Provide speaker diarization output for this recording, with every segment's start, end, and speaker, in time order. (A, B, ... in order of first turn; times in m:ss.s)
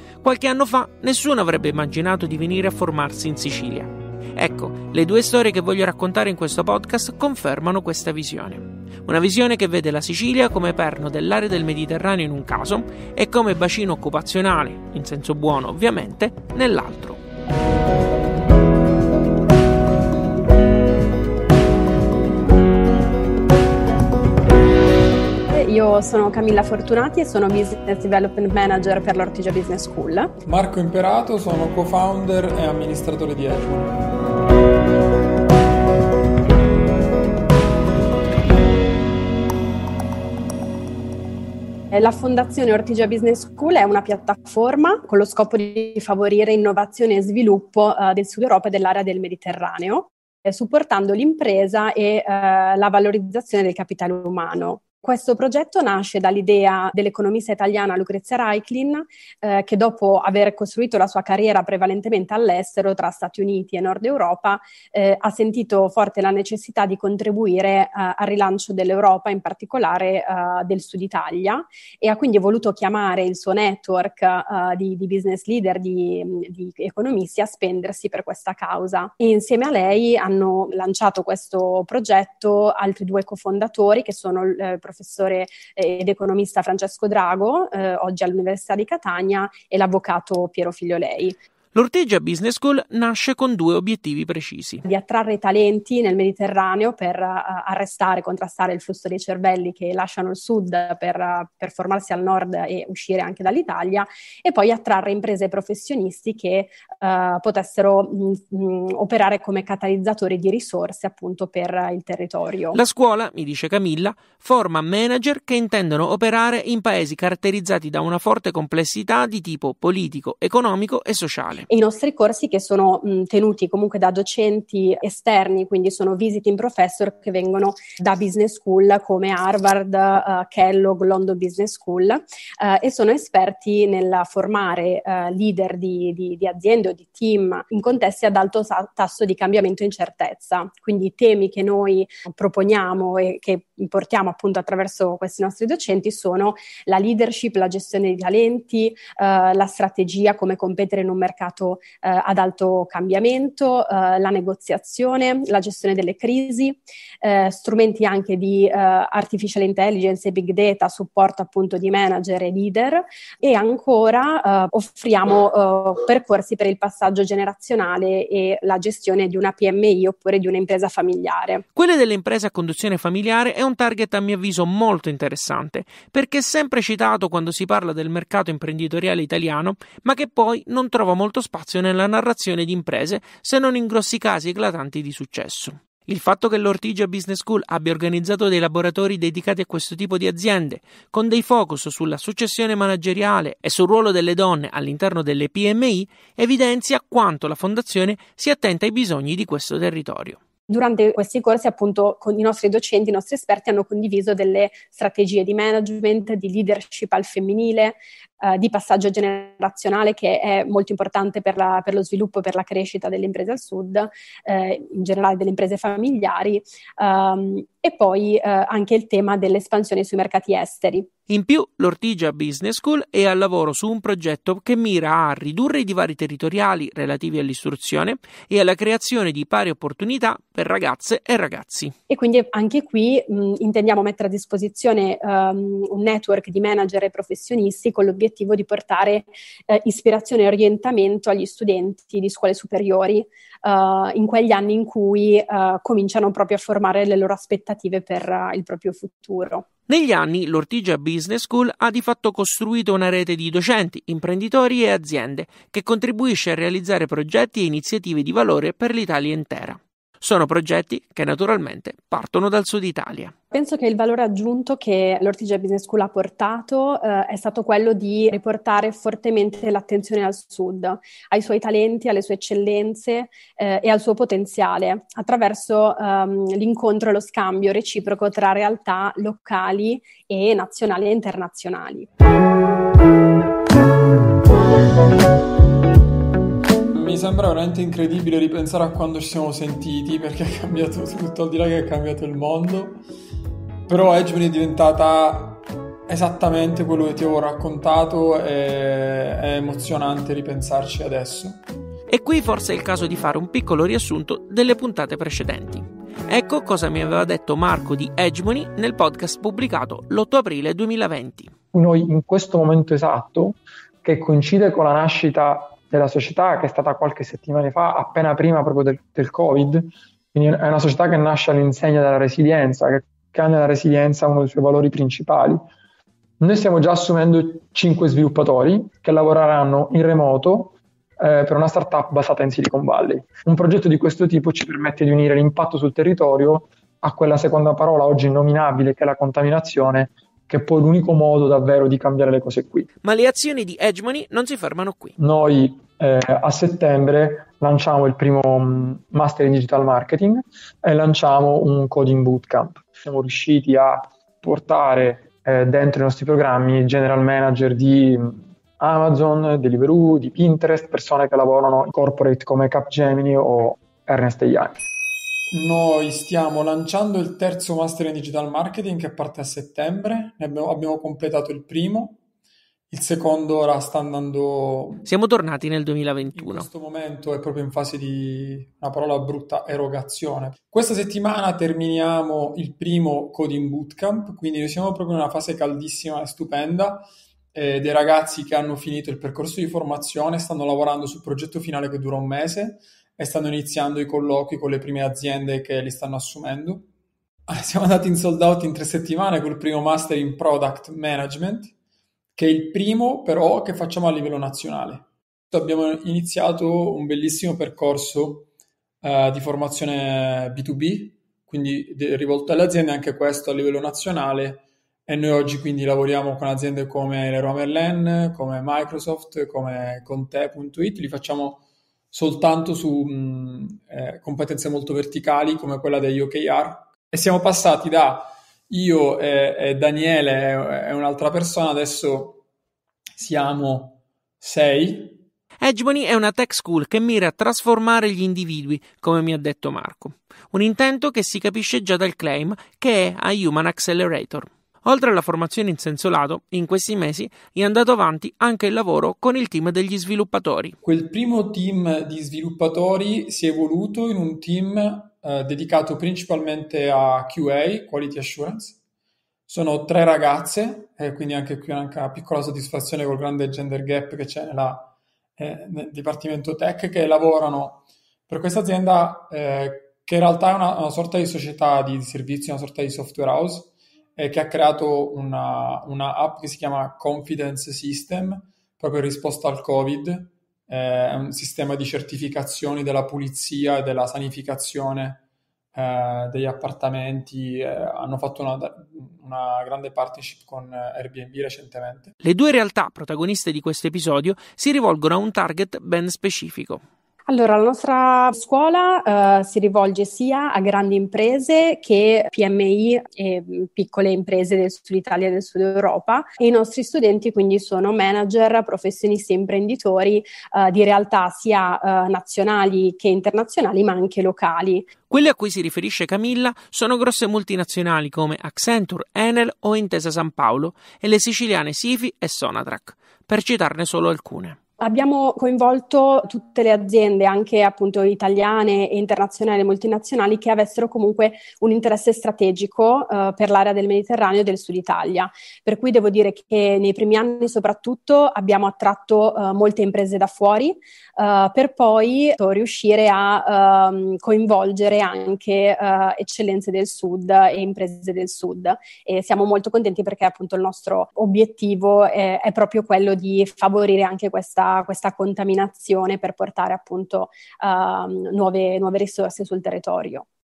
0:00.2-0:17.2 A
0:25.5-0:30.4 B
0:30.4-0:34.0 C
0:41.9-1:31.4 B
1:31.7-1:34.8 A
1:34.8-1:52.8 B
1:52.7-2:01.7 A
2:01.7-2:51.6 B
2:51.8-3:20.4 A
3:20.7-3:41.1 B
3:41.3-3:51.9 A
3:52.1-4:09.6 B
4:09.9-4:23.3 A
4:23.5-4:42.1 B
4:46.9-4:53.0 C
4:53.9-5:01.6 C
5:02.1-5:11.5 A
5:11.8-5:13.4 C
5:11.8-5:13.5 D
5:14.1-5:18.4 D
5:14.1-5:19.8 C
5:20.3-5:25.5 C
5:20.4-5:22.1 D
5:23.0-5:23.6 D
5:26.4-5:26.7 D
5:26.4-5:30.7 C
5:27.3-5:30.7 D
5:31.2-5:32.7 D
5:31.4-5:31.8 C
5:32.4-5:36.5 C
5:33.2-5:42.8 D
5:37.1-5:42.8 C
5:43.0-5:45.2 A
5:45.2-5:58.1 D
5:45.2-5:50.3 C
5:51.1-5:53.8 C
5:54.5-5:58.0 C
5:58.8-6:04.7 D
5:58.9-6:04.4 C
6:05.5-6:12.2 C
6:12.9-6:15.1 C
6:15.0-6:16.7 A
6:16.3-6:36.9 C
6:37.5-6:41.7 C
6:42.3-6:48.5 C
6:49.0-7:12.4 C
7:13.2-7:15.2 C
7:15.6-7:30.8 A
7:30.8-7:38.8 C
7:39.5-8:05.2 C
8:05.7-8:12.1 C
8:12.2-8:16.8 A
8:17.3-8:34.9 B
8:35.1-8:44.6 A
8:44.8-9:20.2 B